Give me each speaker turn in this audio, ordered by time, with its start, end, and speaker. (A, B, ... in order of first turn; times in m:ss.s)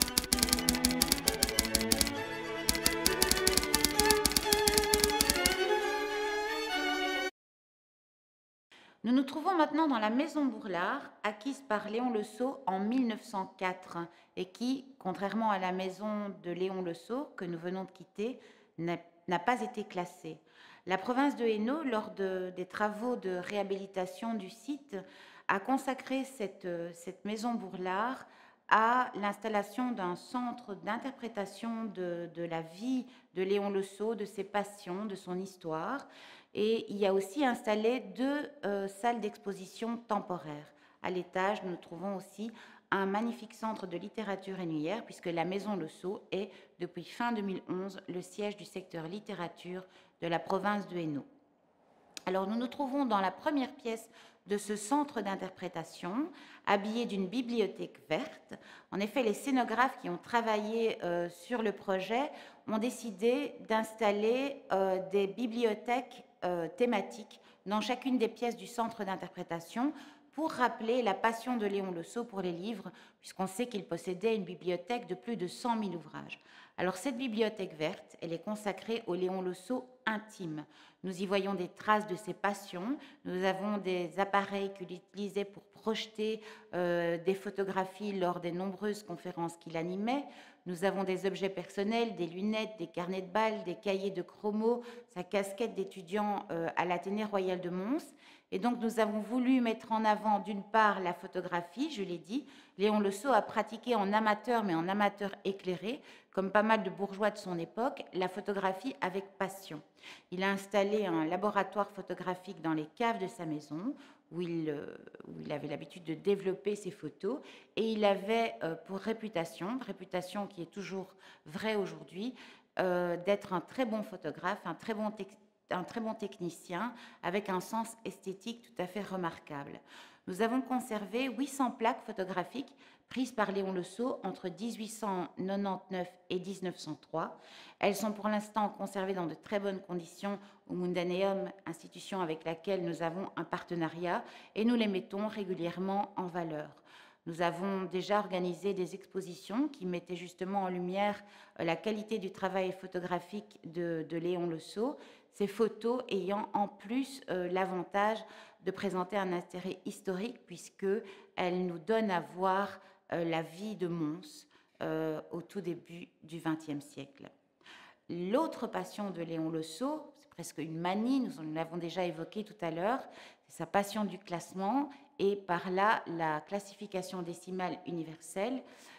0:09.0-0:51.3 A
0:52.3-2:47.3 A
2:48.1-2:58.6 A